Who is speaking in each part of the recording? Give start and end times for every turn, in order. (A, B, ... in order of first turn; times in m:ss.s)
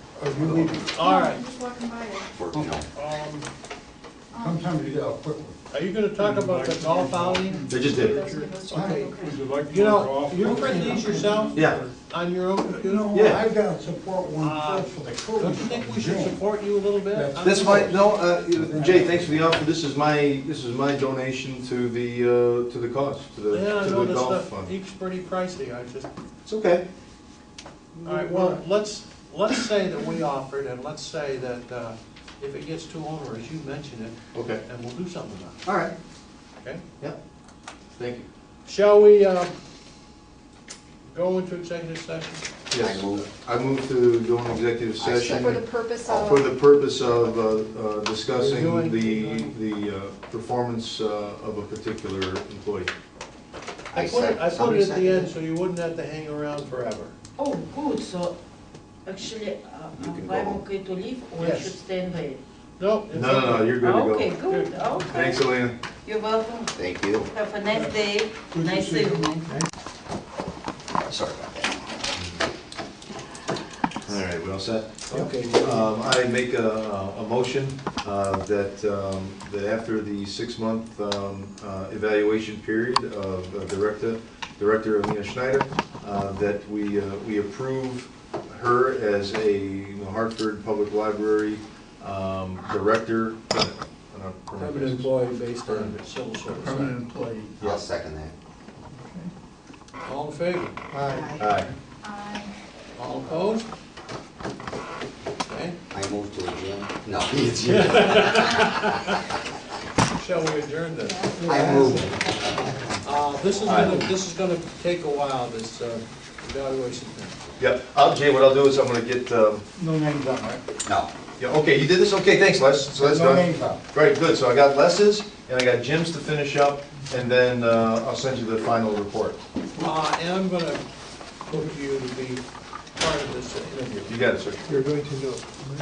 0:00.2-0:00.8 A
0:00.4-0:01.5 B
0:01.0-0:02.3 C
0:02.3-0:02.9 D
0:02.7-0:03.5 B
0:04.3-0:04.7 C
0:04.4-0:05.6 A
0:05.7-0:07.7 B
0:06.2-0:11.9 E
0:07.7-0:08.2 F
0:07.7-0:09.6 C
0:08.7-0:13.2 B
0:08.7-0:09.1 A
0:10.8-0:11.4 C
0:11.5-0:11.8 F
0:12.6-0:16.4 A
0:12.8-0:13.2 E
0:13.1-0:13.4 F
0:14.4-0:17.9 B
0:17.1-0:19.6 A
0:17.4-0:24.7 F
0:23.5-0:26.1 B
0:26.4-0:26.8 F
0:28.0-0:28.3 A
0:28.0-0:35.6 B
0:28.1-0:28.5 E
0:34.3-0:34.6 F
0:35.6-0:35.9 F
0:38.0-0:38.3 F
0:38.6-0:39.5 B
0:41.1-0:42.4 B
0:42.7-0:52.9 F
0:42.8-0:43.3 D
0:45.0-0:46.3 D
0:45.3-0:46.5 C
0:48.3-0:49.5 B
0:53.9-0:55.3 D
0:53.9-0:57.2 B
0:57.4-0:58.4 G
0:59.0-1:02.4 G
1:00.0-1:00.5 D
1:01.4-1:01.7 B
1:02.8-1:03.8 B
1:03.1-1:04.3 F
1:03.8-1:05.5 G
1:04.5-1:04.9 B
1:05.0-1:05.8 F
1:06.0-1:09.5 G
1:06.8-1:07.3 D
1:07.7-1:09.5 E
1:11.0-1:12.4 D
1:14.1-1:35.1 F
1:15.1-1:15.9 B
1:34.6-1:37.0 B
1:36.6-1:36.9 E
1:37.6-1:38.3 D
1:40.0-1:40.8 B
1:41.1-1:41.5 C
1:41.4-1:41.7 F
1:42.0-1:42.5 C
1:43.0-1:43.7 B
1:45.4-1:45.8 B
1:45.9-1:48.6 D
1:47.6-1:49.3 B
1:50.2-1:51.3 B
1:51.0-1:52.4 C
1:51.4-1:54.1 D
1:51.4-1:52.2 A
1:53.0-1:57.4 B
1:53.6-1:54.0 F
1:57.6-1:59.6 F
1:59.8-2:00.6 A
2:00.8-2:01.1 D
2:01.4-2:09.4 F
2:03.0-2:03.8 A
2:09.8-2:10.9 B
2:11.5-2:12.4 B
2:13.0-2:14.1 B
2:14.1-2:14.7 F
2:14.7-2:15.2 E